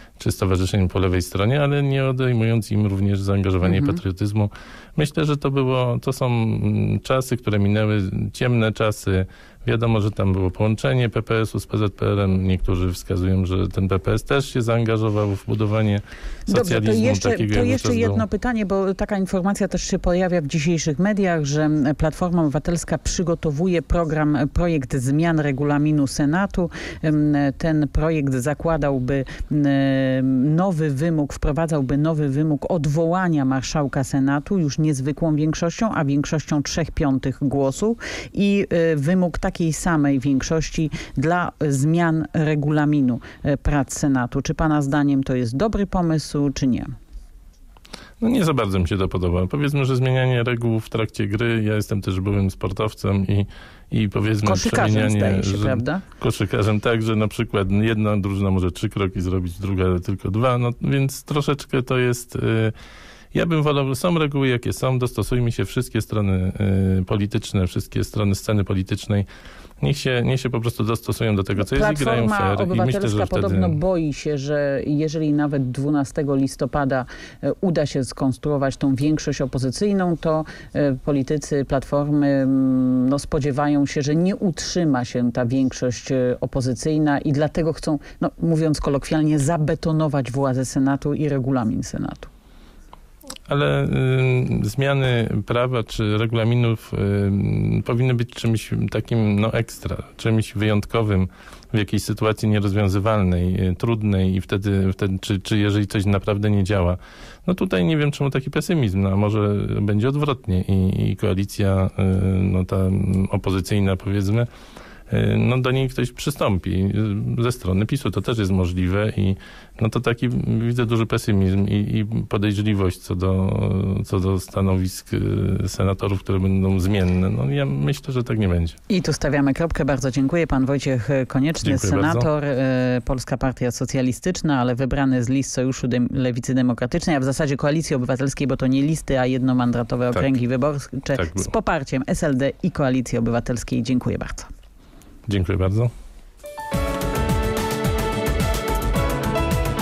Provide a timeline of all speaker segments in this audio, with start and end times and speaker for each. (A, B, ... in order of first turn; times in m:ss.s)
0:00.2-0:18.2 A
0:03.6-0:04.0 B
0:16.5-0:46.9 B
0:48.2-1:02.7 A
0:54.4-0:56.0 B
1:03.3-1:09.2 A
1:09.8-1:13.8 A
1:11.6-1:32.3 B
1:33.5-1:54.5 A
1:55.1-2:08.8 A
2:08.9-2:24.5 B
2:11.6-2:12.3 A
2:21.1-2:21.5 A
2:25.3-2:25.9 A